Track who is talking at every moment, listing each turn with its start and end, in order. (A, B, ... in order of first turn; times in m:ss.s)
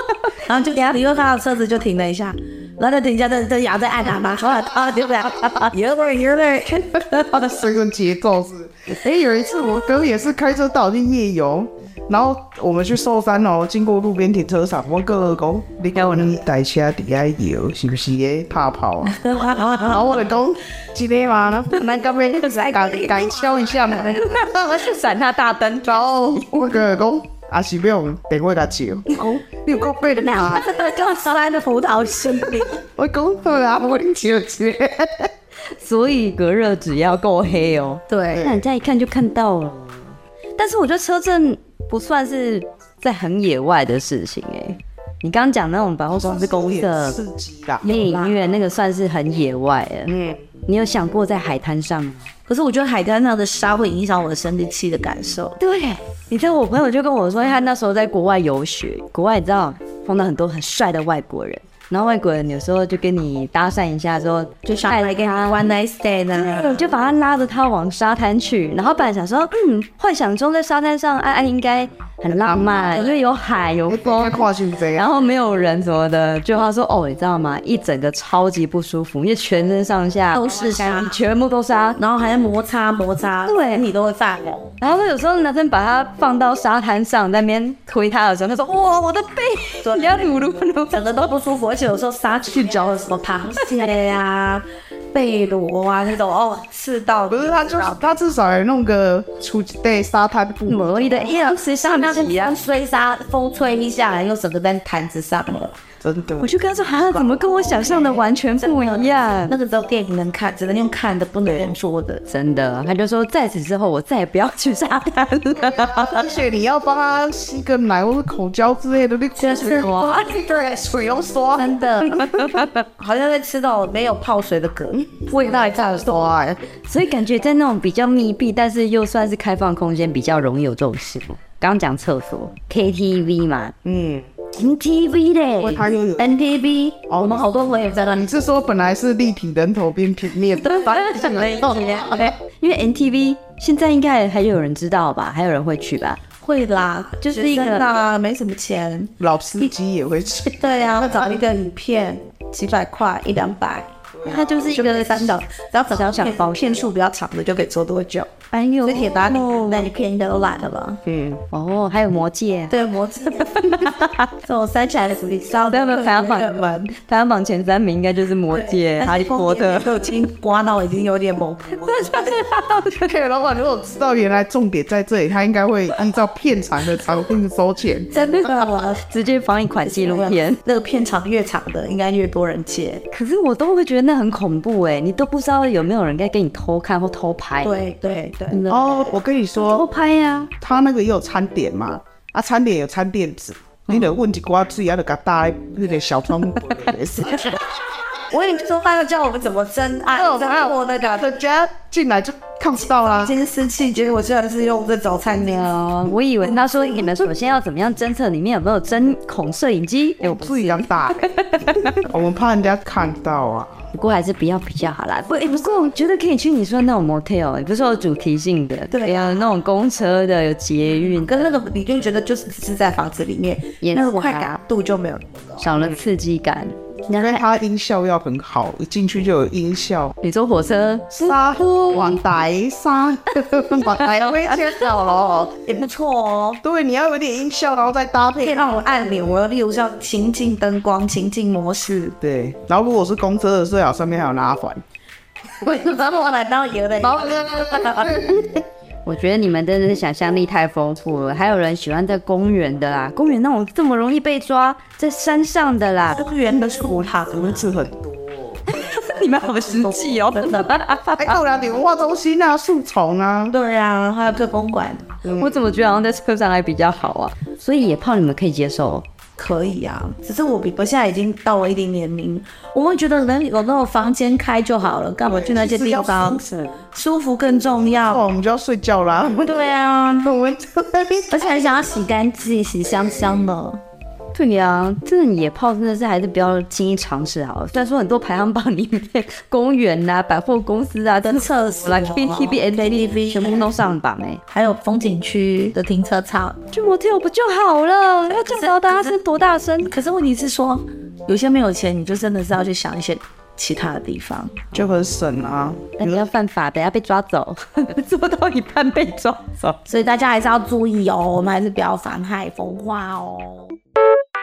0:00.4-0:07.4 A
0:07.3-0:19.2 B
0:15.9-0:16.3 C
0:19.0-0:20.2 A
0:19.8-0:21.8 B
0:21.8-0:23.0 C
0:22.4-0:24.3 B
0:24.0-0:26.0 C
0:25.8-0:30.7 B
0:30.5-0:32.8 A
0:32.7-0:35.3 B
0:35.8-0:40.0 C
0:38.1-0:38.4 A
0:38.3-0:38.6 B
0:40.6-0:47.2 C
0:46.1-0:47.8 B
0:47.8-0:48.4 A
0:47.8-0:52.2 C
0:50.0-0:50.4 B
0:52.5-0:55.6 A
0:55.6-1:05.6 C
1:04.6-1:06.8 A
1:06.3-1:22.0 C
1:12.3-1:12.9 B
1:13.9-1:15.1 B
1:20.3-1:21.2 A
1:22.0-1:24.7 A
1:23.4-1:23.8 C
1:24.8-1:31.0 C
1:29.8-1:38.0 A
1:37.3-1:41.0 B
1:40.7-1:42.6 C
1:41.8-1:45.8 A
1:46.0-1:46.5 B
1:46.4-1:49.5 C
1:46.9-1:52.2 A
1:52.3-1:56.3 C
1:55.5-2:02.6 B
1:59.4-2:00.4 A
2:01.6-2:05.2 A
2:02.1-2:02.6 C
2:05.2-2:06.6 B
2:06.7-2:13.7 C
2:13.8-2:14.3 B
2:14.5-2:15.8 C
2:15.6-2:16.3 B
2:16.2-2:18.2 A
2:17.1-2:17.5 B
2:18.1-2:22.1 B
2:20.6-2:26.2 C
2:26.4-2:29.1 A
2:27.2-2:27.9 C
2:29.2-2:31.4 B
2:30.4-2:41.0 A
2:34.1-2:34.7 B
2:34.2-2:35.3 C
2:35.9-2:36.5 C
2:38.5-2:39.9 C
2:41.0-2:41.4 B
2:41.5-2:42.8 C
2:42.7-2:46.9 A
2:43.5-2:44.3 C
2:45.6-2:50.0 C
2:48.5-2:52.4 A
2:51.8-2:53.1 C
2:53.0-2:58.1 B
2:58.1-2:59.0 A
2:59.0-3:00.6 C
2:59.8-3:03.0 A
3:03.1-3:07.7 C
3:07.6-3:08.7 A
3:08.5-3:10.5 C
3:08.7-3:09.9 B
3:10.6-3:17.6 B
3:18.2-3:21.3 A
3:20.2-3:23.3 B
3:23.1-3:25.9 A
3:25.8-3:31.9 C
3:30.2-3:33.7 B
3:33.9-3:41.4 C
3:38.9-3:39.4 A
3:41.2-3:45.7 A
3:43.8-3:44.5 C
3:45.6-3:47.4 C
3:45.8-3:46.0 B
3:47.1-3:50.1 B
3:50.2-3:51.4 C
3:51.1-3:55.7 B
3:54.5-3:55.0 C
3:55.6-3:56.6 A
3:56.6-3:58.6 B
3:58.4-4:02.2 A
4:02.2-4:04.8 B
4:05.6-4:08.5 A
4:07.0-4:08.5 B
4:09.0-4:16.2 C
4:16.1-4:17.7 A
4:16.8-4:18.6 B
4:18.6-4:21.4 C
4:19.0-4:20.7 A
4:21.2-4:23.5 B
4:23.5-4:25.1 A
4:25.2-4:25.6 B
4:25.4-4:29.0 C
4:29.4-4:38.2 A
4:35.3-4:36.8 B
4:38.1-4:41.4 B
4:39.4-4:40.2 A
4:41.3-4:43.8 A
4:44.3-4:54.4 C
4:51.2-4:53.8 A
4:54.5-4:56.6 A
4:56.7-4:59.9 C
4:59.8-5:04.6 A
5:04.7-5:06.3 B
5:06.0-5:09.5 C
5:09.8-5:13.8 A